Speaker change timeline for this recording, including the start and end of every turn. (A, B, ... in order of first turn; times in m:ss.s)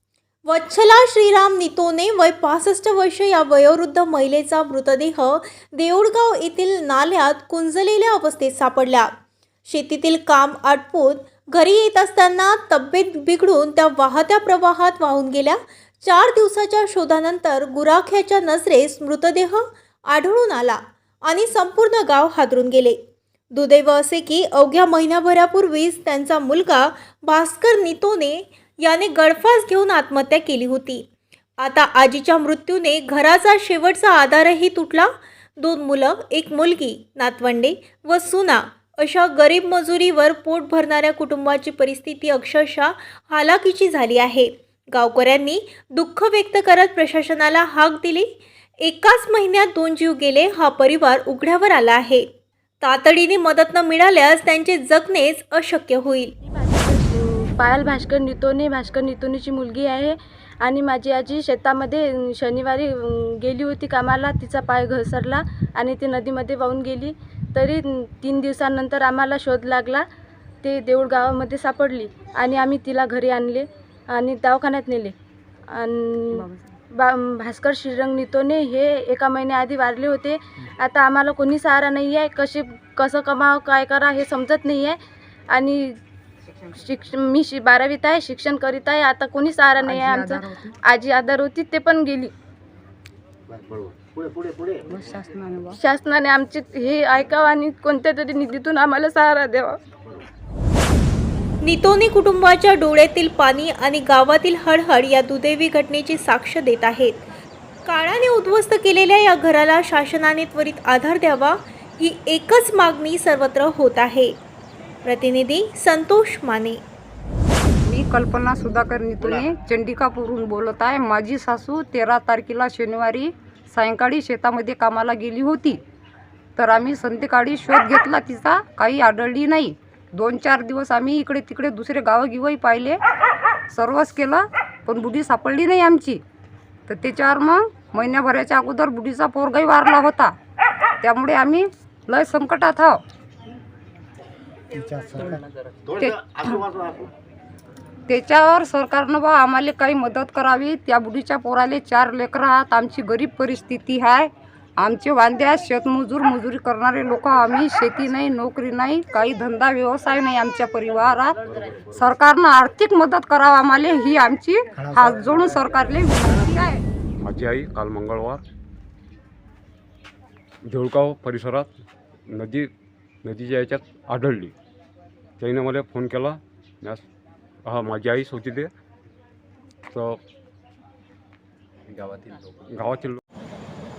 0:00.4-0:09.1 A
0:09.6-0:23.0 A
0:23.5-0:31.0 A
0:31.6-0:52.3 A
0:52.8-0:56.3 A
0:56.5-1:10.0 B
1:10.6-1:15.1 B
1:15.7-1:25.0 B
1:16.3-1:16.6 C
1:25.5-1:26.0 B
1:26.7-1:32.3 B
1:29.8-1:30.7 C
1:34.9-1:35.8 C
1:35.7-1:39.8 B
1:41.6-1:47.2 A
1:47.8-1:54.3 A
1:55.0-1:56.8 A
1:57.8-2:05.8 C
2:06.6-2:13.0 C
2:13.7-2:16.2 C
2:16.9-2:20.3 C
2:21.0-2:23.0 C
2:25.1-2:25.4 C
2:25.9-2:26.7 C
2:28.1-2:46.8 C
2:47.2-2:48.4 D
2:50.6-2:51.7 D
2:52.3-2:52.7 D
2:53.2-2:54.5 D
2:55.4-2:57.0 D
2:57.6-2:58.7 D
2:59.9-3:00.2 D
3:01.9-3:03.2 D